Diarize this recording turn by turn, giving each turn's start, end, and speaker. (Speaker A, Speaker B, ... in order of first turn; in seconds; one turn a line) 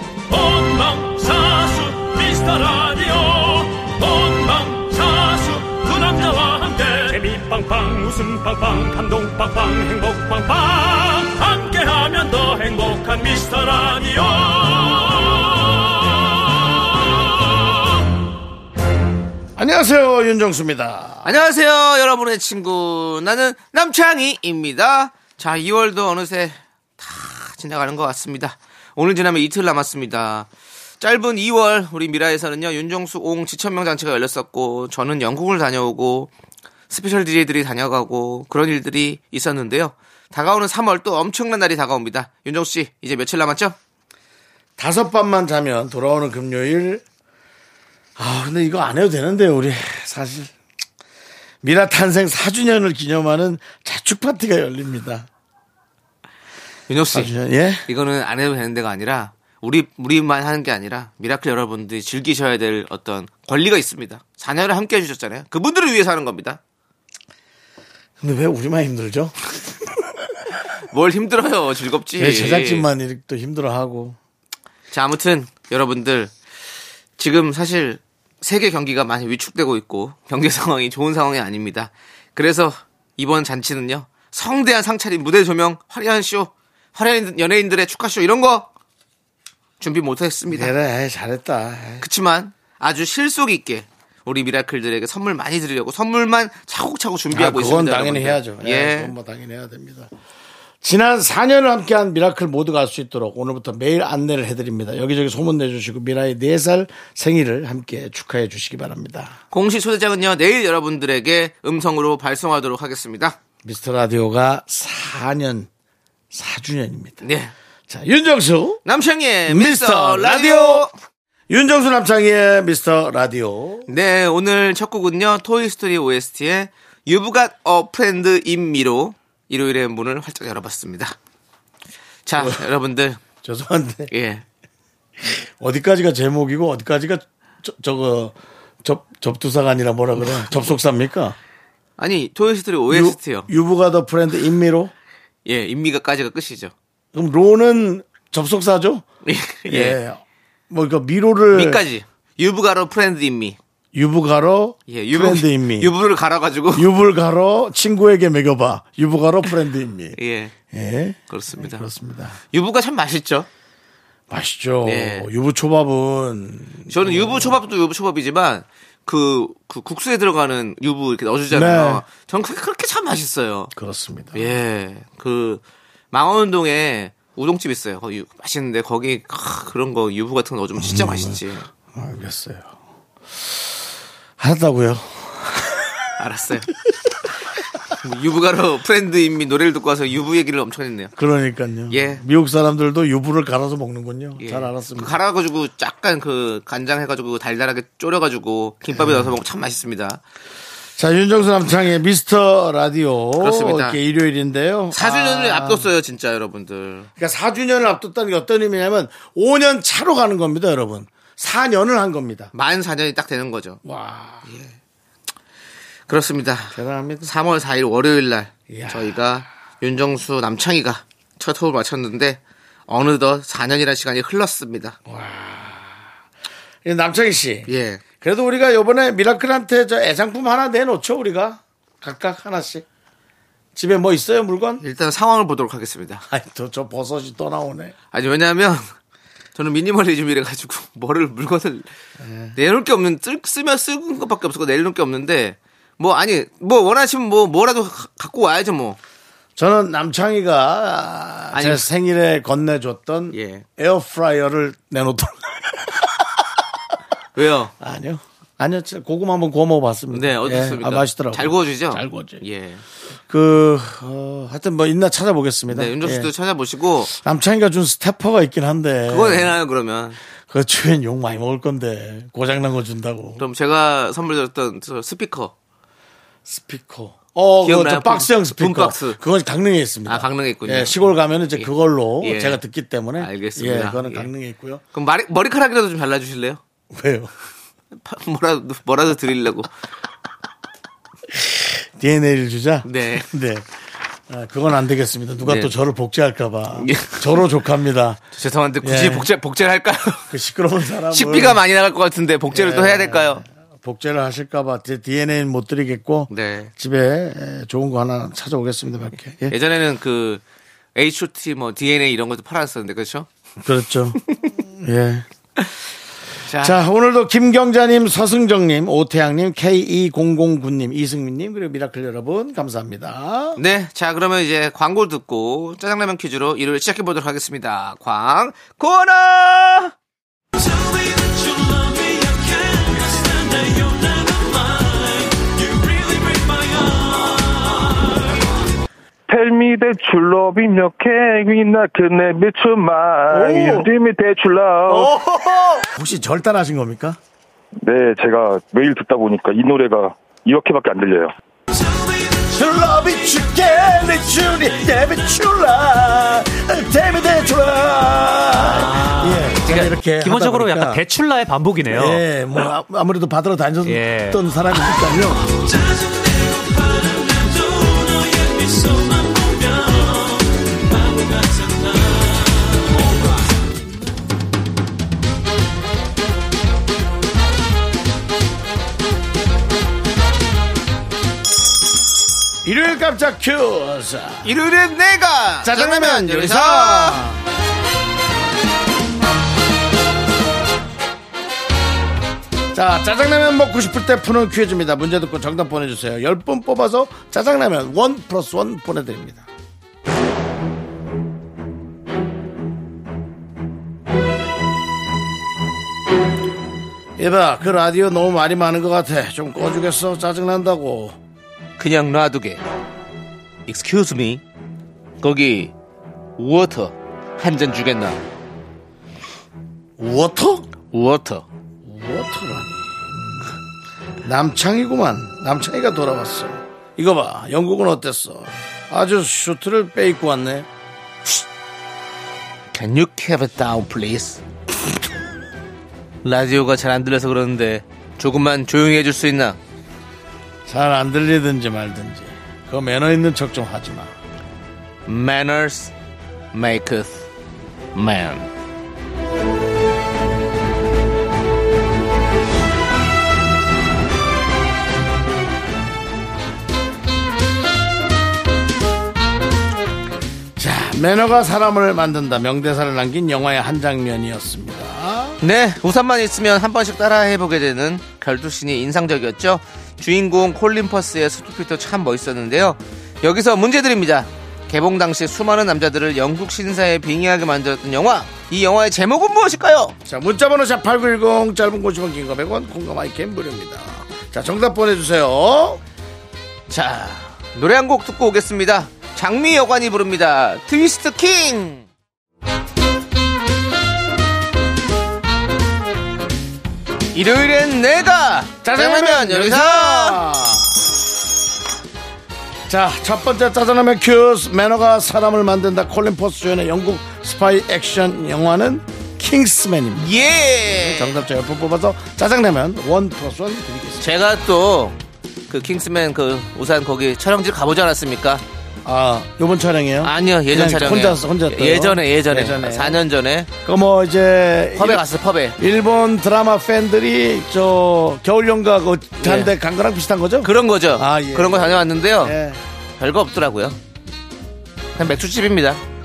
Speaker A: 0.3-17.9
Speaker B: 19.6-21.4
Speaker C: 21.2-30.5
Speaker C: 31.0-36.3
Speaker C: 36.9-43.8
Speaker B: 44.8-47.0
Speaker B: 48.2-50.5
Speaker B: 51.6-55.3
Speaker C: 56.9-57.3
Speaker B: 57.1-57.8
Speaker C: 57.9-66.6
Speaker B: 68.2-70.2
Speaker C: 70.9-72.9
Speaker B: 72.2-74.2
Speaker C: 74.9-76.3
Speaker C: 77.2-88.7
Speaker C: 89.8-90.7
Speaker B: 90.5-92.0
Speaker C: 92.0-99.1
Speaker B: 97.3-100.1
Speaker B: 100.8-109.4
Speaker C: 109.5-113.4
Speaker B: 113.6-115.7
Speaker B: 116.3-117.2
Speaker C: 117.2-117.5
Speaker B: 117.9-118.8
Speaker C: 118.8-120.9
Speaker B: 119.5-120.9
Speaker B: 121.5-123.9
Speaker C: 123.9-131.2
Speaker C: 132.2-133.2
Speaker B: 132.4-132.6
Speaker B: 133.4-134.1
Speaker C: 134.1-134.4
Speaker B: 135.2-141.4
Speaker C: 142.0-143.5
Speaker B: 142.9-144.9
Speaker C: 145.4-146.7
Speaker B: 147.1-149.0
Speaker C: 149.2-150.0
Speaker B: 149.7-151.8
Speaker C: 151.5-153.6
Speaker B: 153.9-155.9
Speaker C: 154.9-156.9
Speaker B: 156.8-160.2
Speaker C: 160.2-160.5
Speaker B: 160.7-162.4
Speaker C: 161.3-161.9
Speaker C: 162.5-163.5
Speaker B: 164.3-167.6
Speaker C: 164.8-165.3
Speaker C: 166.9-173.7
Speaker B: 171.5-172.0
Speaker B: 173.7-174.5
Speaker C: 174.3-181.7
Speaker B: 180.8-182.7
Speaker B: 184.4-186.0
Speaker C: 186.2-186.7
Speaker B: 186.8-187.1
Speaker C: 187.9-191.1
Speaker B: 191.2-195.2
Speaker C: 191.9-192.2
Speaker C: 194.4-200.2
Speaker B: 198.9-199.3
Speaker B: 201.0-205.9
Speaker C: 203.4-204.0
Speaker C: 204.9-207.1
Speaker B: 207.2-212.5
Speaker C: 212.5-213.8
Speaker B: 213.8-214.5
Speaker C: 214.5-214.7
Speaker C: 216.1-225.0
Speaker B: 216.7-217.3
Speaker B: 218.7-219.3
Speaker B: 225.1-226.0
Speaker B: 226.8-227.7
Speaker C: 227.7-228.0
Speaker B: 228.2-232.8
Speaker B: 233.8-234.8
Speaker C: 234.8-236.2
Speaker B: 236.3-237.9
Speaker C: 238.1-238.9
Speaker C: 239.6-241.9
Speaker B: 242.2-242.6
Speaker C: 242.6-249.0
Speaker B: 249.6-256.6
Speaker C: 251.5-251.9
Speaker C: 253.3-253.6
Speaker C: 257.3-257.7
Speaker B: 257.8-262.4
Speaker C: 260.1-262.8
Speaker B: 263.3-266.3
Speaker C: 265.7-267.1
Speaker B: 267.1-269.5
Speaker C: 269.1-270.2
Speaker B: 270.5-273.4
Speaker C: 273.4-275.5
Speaker B: 276.4-284.8
Speaker C: 277.6-279.2
Speaker C: 280.1-281.0
Speaker C: 281.6-282.6
Speaker C: 283.2-284.3
Speaker C: 284.9-286.6
Speaker B: 286.9-287.3
Speaker C: 288.0-289.7
Speaker B: 291.3-293.7
Speaker C: 292.8-293.3
Speaker B: 294.3-298.2
Speaker C: 295.4-295.7
Speaker C: 296.8-297.4
Speaker C: 298.3-300.3
Speaker B: 298.8-299.3
Speaker B: 300.3-301.6
Speaker C: 301.1-303.4
Speaker B: 302.5-309.6
Speaker C: 306.3-306.7
Speaker C: 309.5-310.4
Speaker C: 310.9-313.3
Speaker B: 313.6-315.2
Speaker C: 316.4-316.8
Speaker B: 316.6-323.6
Speaker C: 323.6-329.9
Speaker A: 336.0-336.5
Speaker D: 339.3-345.1
Speaker B: 343.3-343.9
Speaker B: 344.9-347.2
Speaker D: 347.8-351.3
Speaker B: 352.4-361.0
Speaker E: 358.6-362.2
Speaker B: 361.9-365.5
Speaker E: 363.9-364.4
Speaker B: 382.6-384.5
Speaker C: 384.4-387.2
Speaker B: 385.6-387.4
Speaker B: 392.7-399.4
Speaker B: 407.2-411.1
Speaker C: 411.8-412.6
Speaker C: 413.7-414.4
Speaker C: 415.2-415.7
Speaker C: 416.4-418.2
Speaker B: 420.0-420.7
Speaker C: 420.9-421.4
Speaker B: 421.8-423.5
Speaker B: 424.2-430.7
Speaker C: 432.7-434.4
Speaker C: 436.2-439.6
Speaker B: 440.7-444.1
Speaker C: 445.1-445.9
Speaker C: 446.5-447.3
Speaker C: 447.9-448.5
Speaker B: 460.6-465.4
Speaker C: 465.4-479.9
Speaker B: 480.1-485.8
Speaker C: 486.7-491.9
Speaker C: 497.1-500.2
Speaker B: 498.6-500.9
Speaker B: 502.7-514.1
Speaker C: 510.0-511.2
Speaker C: 514.0-515.0
Speaker C: 515.5-518.4
Speaker B: 518.9-523.0
Speaker C: 520.0-523.5
Speaker B: 523.6-532.6
Speaker C: 524.8-525.6
Speaker C: 529.2-529.5
Speaker C: 530.4-532.4
Speaker C: 533.0-533.8
Speaker C: 535.0-535.8